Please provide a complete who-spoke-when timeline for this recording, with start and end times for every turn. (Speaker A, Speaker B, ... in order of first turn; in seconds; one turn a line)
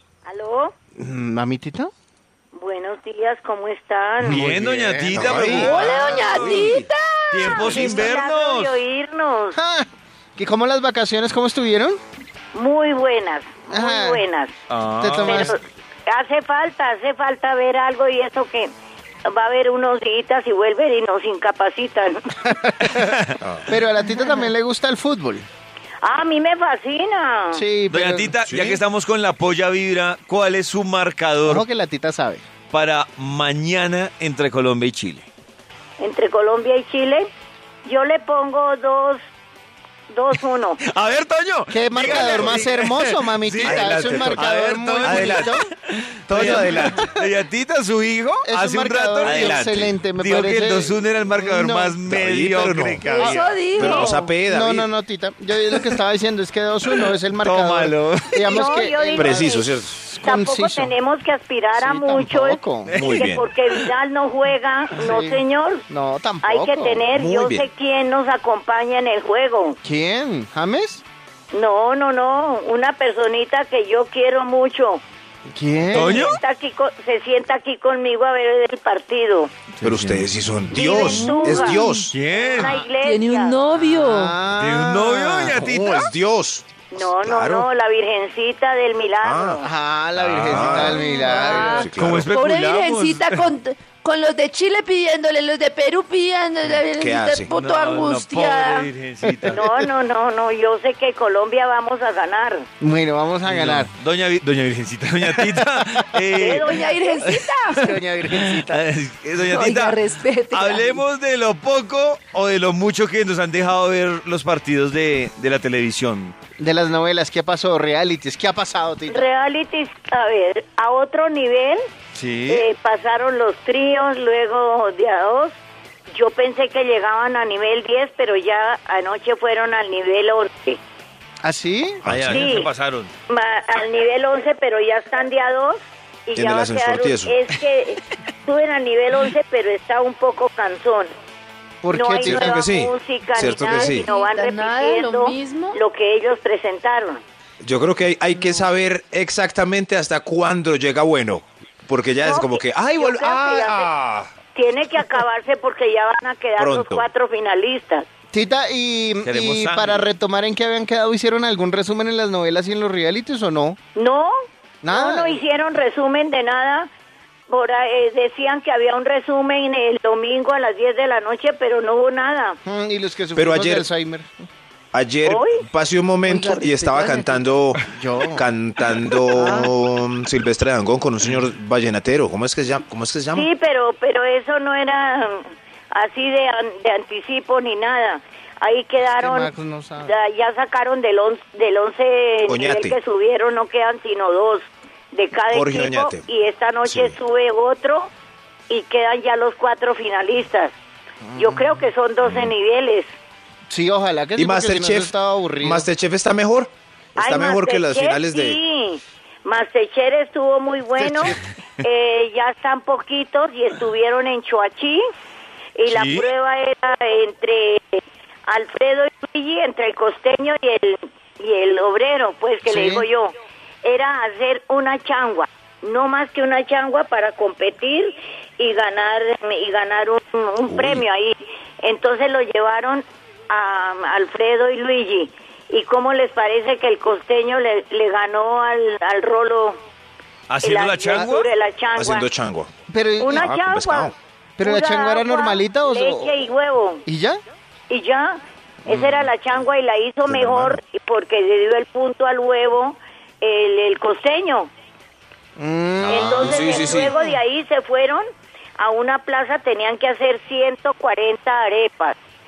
Speaker A: 0.2-0.7
Speaker B: 1.0-1.9
Speaker A: 2.5-4.4
Speaker B: 4.2-5.8
Speaker C: 4.2-8.8
Speaker D: 5.1-5.7
Speaker E: 5.5-7.8
Speaker A: 7.5-9.6
Speaker B: 9.5-12.0
Speaker A: 12.5-14.5
Speaker B: 13.7-14.2
Speaker C: 14.7-15.6
Speaker B: 15.0-15.6
Speaker A: 15.2-18.7
Speaker A: 19.2-22.2
Speaker B: 22.5-23.0
Speaker C: 22.8-23.3
Speaker B: 23.7-25.4
Speaker A: 26.0-27.6
Speaker B: 27.5-28.3
Speaker C: 27.9-31.6
Speaker D: 28.4-28.8
Speaker B: 31.4-32.4
Speaker C: 32.7-35.3
Speaker A: 36.0-37.3
Speaker A: 37.8-39.2
Speaker A: 40.1-40.8
Speaker C: 40.8-53.6
Speaker B: 41.7-45.6
Speaker D: 43.6-44.4
Speaker D: 45.0-45.5
Speaker D: 46.3-47.1
Speaker B: 46.4-46.8
Speaker B: 48.4-52.0
Speaker D: 49.5-49.9
Speaker D: 52.0-54.9
Speaker E: 53.0-54.3
Speaker A: 53.8-54.1
Speaker B: 54.4-59.5
Speaker C: 55.7-56.0
Speaker C: 57.0-58.7
Speaker A: 58.5-59.7
Speaker D: 59.1-60.0
Speaker B: 60.0-60.9
Speaker A: 60.2-65.8
Speaker B: 61.8-63.0
Speaker C: 62.9-63.8
Speaker D: 63.0-63.5
Speaker B: 65.0-67.1
Speaker A: 66.4-69.8
Speaker D: 67.1-67.7
Speaker B: 69.8-71.0
Speaker A: 71.5-75.0
Speaker B: 75.5-76.2
Speaker C: 75.9-76.4
Speaker A: 75.9-79.5
Speaker C: 79.8-80.3
Speaker D: 79.8-82.1
Speaker A: 80.7-83.6
Speaker B: 81.1-81.8
Speaker C: 82.1-82.8
Speaker B: 82.5-82.9
Speaker E: 83.0-84.4
Speaker B: 83.7-85.6
Speaker C: 84.5-86.1
Speaker D: 85.5-87.7
Speaker A: 86.9-89.7
Speaker D: 89.2-89.6
Speaker B: 89.6-91.9
Speaker D: 90.2-91.0
Speaker C: 90.2-93.5
Speaker E: 90.9-98.9
Speaker D: 91.6-92.3
Speaker D: 97.0-97.5
Speaker C: 97.5-99.6
Speaker A: 99.5-102.7
Speaker B: 102.8-103.9
Speaker C: 103.4-116.3
Speaker A: 106.3-106.9
Speaker E: 106.7-107.8
Speaker B: 107.7-108.8
Speaker E: 109.4-111.0
Speaker B: 116.6-119.2
Speaker A: 119.1-121.8
Speaker C: 122.1-122.7
Speaker A: 122.5-125.5
Speaker A: 126.1-130.8
Speaker B: 131.4-132.0
Speaker C: 132.0-133.1
Speaker D: 132.1-132.5
Speaker A: 132.3-132.7
Speaker A: 133.3-141.1
Speaker D: 136.3-137.3
Speaker B: 141.8-142.5
Speaker A: 141.9-147.2
Speaker D: 142.2-144.1
Speaker E: 143.4-145.8
Speaker D: 147.6-154.3
Speaker A: 152.2-153.9
Speaker A: 154.5-158.0
Speaker D: 156.6-157.1
Speaker B: 158.3-163.8
Speaker C: 159.2-160.1
Speaker A: 163.9-164.3
Speaker B: 164.8-165.4
Speaker A: 164.9-166.9
Speaker A: 167.5-172.6
Speaker B: 172.7-174.5
Speaker D: 173.3-173.8
Speaker D: 174.9-183.5
Speaker A: 175.2-175.6
Speaker B: 176.3-178.4
Speaker B: 179.3-179.7
Speaker A: 183.3-189.5
Speaker B: 189.1-190.1
Speaker A: 190.0-198.1
Speaker D: 192.5-193.0
Speaker D: 195.5-196.2
Speaker D: 196.8-197.1
Speaker A: 198.7-200.7
Speaker B: 201.2-201.8
Speaker A: 201.3-203.1
Speaker D: 202.2-202.5
Speaker B: 203.7-205.8
Speaker D: 204.4-208.6
Speaker A: 207.2-215.0
Speaker A: 215.8-239.8
Speaker C: 215.8-216.3
Speaker B: 222.6-223.1
Speaker D: 230.7-231.0
Speaker C: 240.5-241.5
Speaker A: 240.6-242.3
Speaker D: 241.9-242.7
Speaker B: 242.9-243.4
Speaker A: 243.2-247.0
Speaker D: 243.3-244.1
Speaker B: 244.6-246.3
Speaker B: 247.1-247.4
Speaker A: 247.9-254.7
Speaker B: 248.9-249.2
Speaker D: 250.2-250.8
Speaker B: 255.6-256.8
Speaker D: 256.0-257.1
Speaker A: 256.1-258.2
Speaker A: 258.8-262.2